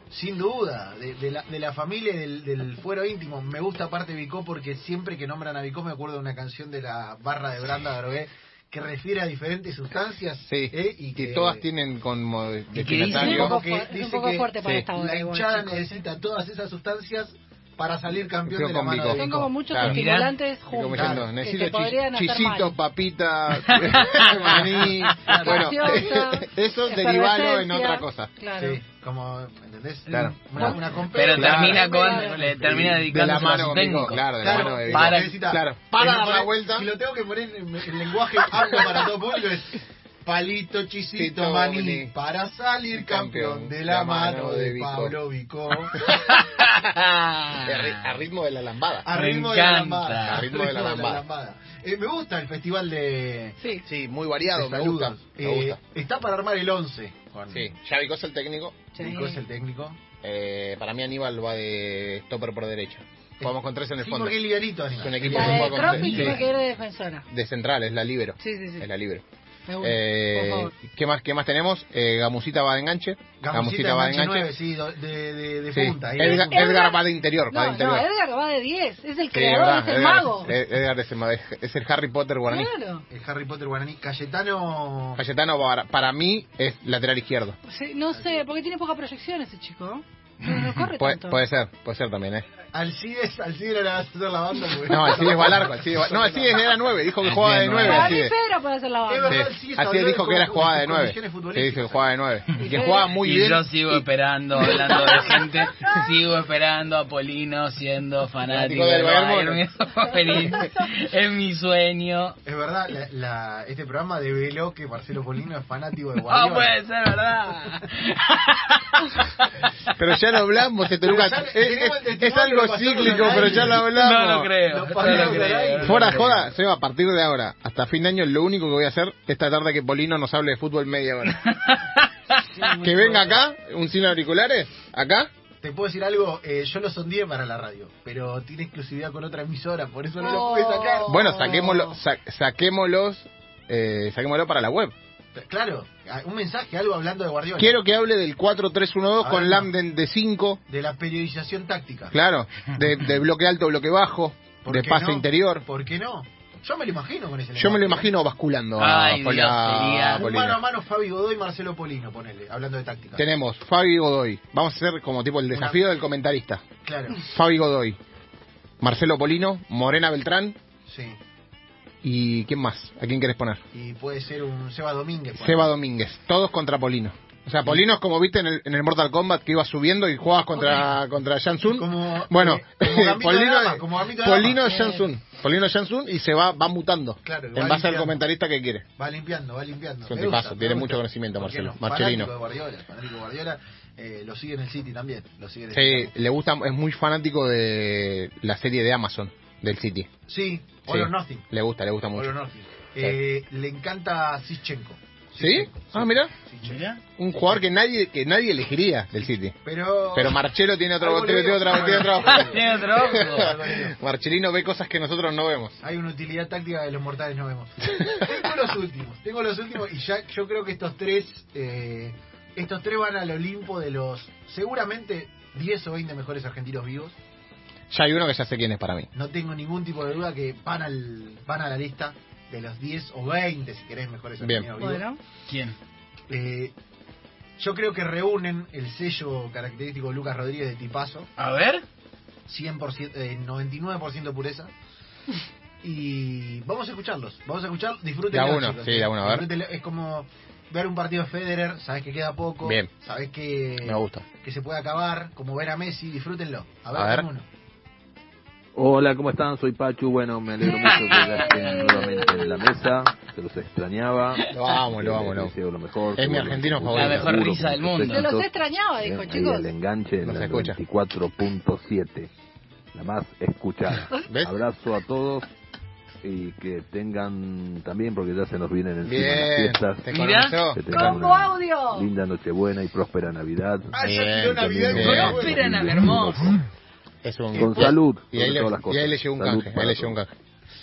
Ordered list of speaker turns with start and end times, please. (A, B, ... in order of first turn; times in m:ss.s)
0:00.1-0:11.7 A
0:10.5-0:13.6 B
0:12.7-0:13.5 C
0:13.1-0:16.0 D
0:13.2-0:19.5 A
0:14.6-0:14.9 B
0:18.5-0:20.0 B
0:19.2-0:22.8 D
0:19.8-0:20.4 C
0:20.7-0:28.3 B
0:20.9-0:21.3 A
0:23.7-0:24.4 C
0:25.2-0:26.0 A
0:25.3-0:28.8 D
0:28.6-0:33.1 A
0:30.1-0:30.8 B
0:31.1-0:35.4 C
0:31.3-0:31.8 B
0:31.5-0:32.4 D
0:32.9-0:36.9 B
0:34.4-0:46.0 A
0:41.2-0:42.1 B
0:42.9-0:45.2 B
0:46.1-0:48.1 C
0:47.6-0:49.1 B
0:49.1-0:53.6 A
0:49.1-0:50.5 C
0:50.2-0:51.2 B
0:53.8-0:55.8 B
0:54.5-0:57.8 A
0:57.5-0:58.9 B
0:58.9-0:59.4 D
0:59.0-1:00.0 A
1:00.2-1:04.4 B
1:03.4-1:06.5 A
1:05.0-1:06.4 B
1:05.3-1:07.3 D
1:07.3-1:09.2 B
1:08.4-1:08.9 D
1:09.7-1:10.7 D
1:09.8-1:14.5 B
1:13.4-1:16.7 A
1:15.7-1:18.1 B
1:16.2-1:20.5 D
1:19.3-1:22.7 B
1:22.5-1:23.0 D
1:23.1-1:25.2 A
1:25.2-1:27.6 B
1:27.6-1:31.4 D
1:28.1-1:28.4 A
1:30.9-1:32.5 B
1:32.7-1:36.7 A
1:34.9-1:38.3 B
1:37.2-1:38.2 C
1:37.8-1:39.5 D
1:39.1-1:42.1 A
1:39.3-1:44.0 B
1:42.6-1:43.2 D
1:43.2-1:52.4 C
1:44.8-1:45.2 D
1:48.5-1:49.6 B
1:50.1-1:50.7 D
1:52.4-1:56.7 A
1:56.3-1:59.2 C
2:00.0-2:11.5 B
2:01.0-2:03.8 A
2:03.7-2:06.4 C
2:04.7-2:06.4 A
2:11.5-2:12.0 C
2:12.3-2:13.4 A
2:12.7-2:15.3 B
2:15.6-2:22.0 A
2:20.2-2:21.8 D
2:21.1-2:24.9 B
2:25.4-2:27.8 A
2:27.6-2:30.6 B
2:29.2-2:29.7 A
2:30.7-2:32.1 A
2:32.1-2:35.6 B
2:34.6-2:38.1 A
2:37.6-2:40.6 B
2:38.8-2:40.3 C
2:40.2-2:43.2 A
2:43.2-2:46.6 B
2:45.5-2:45.8 A
2:46.8-2:47.2 A
2:47.2-2:48.0 B
2:48.8-2:50.6 B
2:50.9-2:51.2 A
2:52.0-2:53.6 B
2:53.7-2:55.7 A
2:55.4-3:08.9 B
3:01.7-3:04.7 A
3:07.2-3:08.2 A
3:09.0-3:16.1 A
3:10.1-3:12.3 B
3:15.7-3:20.1 B
3:20.3-3:21.4 A
3:20.9-3:22.4 B
3:22.2-3:26.8 A
3:25.4-3:26.3 B
3:26.6-3:27.0 C
3:27.2-3:29.6 B
3:29.6-3:30.4 A
3:30.1-3:35.8 B
3:31.0-3:34.0 A
3:32.2-3:33.6 C
3:35.8-3:47.2 A
3:47.9-3:49.1 B
3:49.1-3:55.0 A
3:54.4-3:54.7 B
3:54.8-3:55.2 D
3:55.5-3:55.8 C
3:56.3-3:56.7 A
3:57.6-4:01.3 A
4:01.4-4:01.8 C
4:02.5-4:04.7 A
4:05.8-4:17.5 A
4:08.3-4:09.5 B
4:12.6-4:12.9 B
4:13.8-4:14.2 B
4:16.9-4:17.3 B
4:18.8-4:32.3 E
4:20.6-4:22.7 D
4:20.8-4:21.5 C
4:24.5-4:25.5 B
4:26.2-4:27.4 B
4:26.9-4:28.3 C
4:28.1-4:29.7 D
4:30.2-4:30.8 B
4:32.9-4:35.5 E
4:34.3-4:34.5 B
4:36.2-4:46.6 E
4:39.0-4:41.1 B
4:40.1-4:40.6 C
4:40.9-4:42.1 D
4:43.9-4:45.6 A
4:44.0-4:45.4 B
4:45.0-4:46.6 C
4:47.2-4:50.3 B
4:47.6-4:50.2 E